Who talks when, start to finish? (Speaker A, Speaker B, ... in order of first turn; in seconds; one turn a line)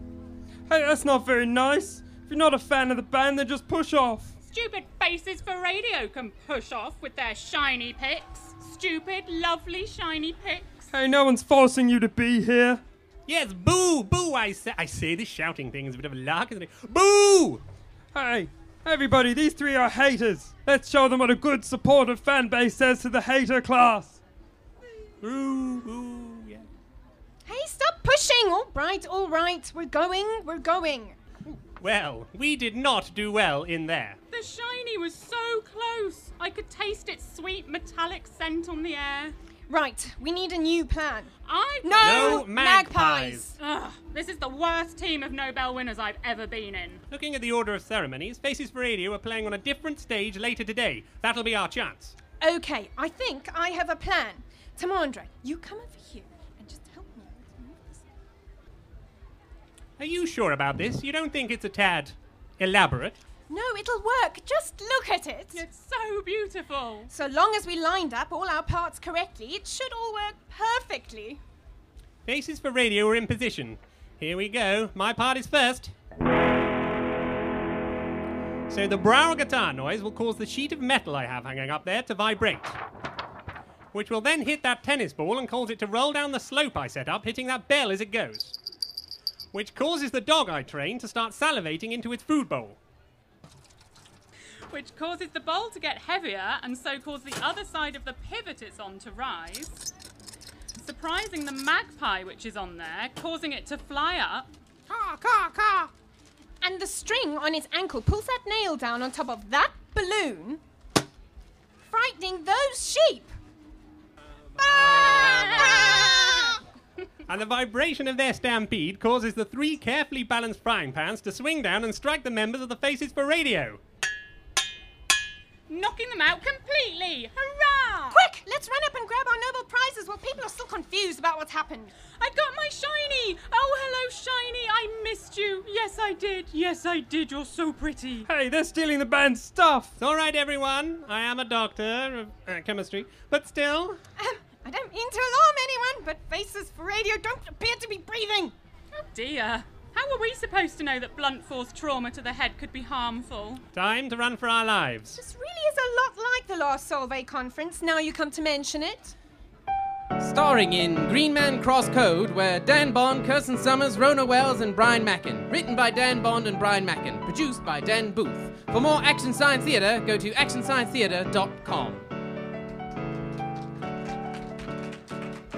Speaker A: 0.7-4.3
Speaker B: 4.5-10.9
Speaker A: 10.9-12.8
Speaker C: 13.3-17.6
Speaker A: 18.1-24.2
Speaker C: 25.2-26.6
Speaker D: 27.4-31.1
Speaker C: 31.6-34.2
Speaker B: 34.3-39.3
Speaker D: 39.7-41.3
Speaker B: 41.4-42.3
Speaker D: 41.8-43.5
Speaker C: 42.0-43.5
Speaker B: 43.6-47.0
Speaker C: 47.1-52.1
Speaker D: 52.4-58.0
Speaker C: 60.0-63.2
Speaker D: 63.5-65.6
Speaker B: 65.5-67.1
Speaker D: 67.1-71.4
Speaker C: 72.2-75.9
Speaker C: 78.7-82.8
Speaker C: 83.9-88.5
Speaker C: 89.5-92.8
Speaker B: 94.7-99.9
Speaker B: 100.8-104.5
Speaker D: 104.9-105.9
Speaker D: 106.6-110.6
Speaker D: 111.9-113.3
Speaker D: 114.6-116.6
Speaker C: 117.3-123.8
Speaker B: 125.7-128.3
Speaker D: 128.1-131.9
Speaker B: 132.2-138.3
Speaker A: 138.3-139.9
Speaker C: 140.0-144.0
Speaker D: 144.2-148.5
Speaker B: 148.9-153.6
Speaker C: 153.7-155.2
Speaker D: 155.2-159.1
Speaker E: 160.2-172.0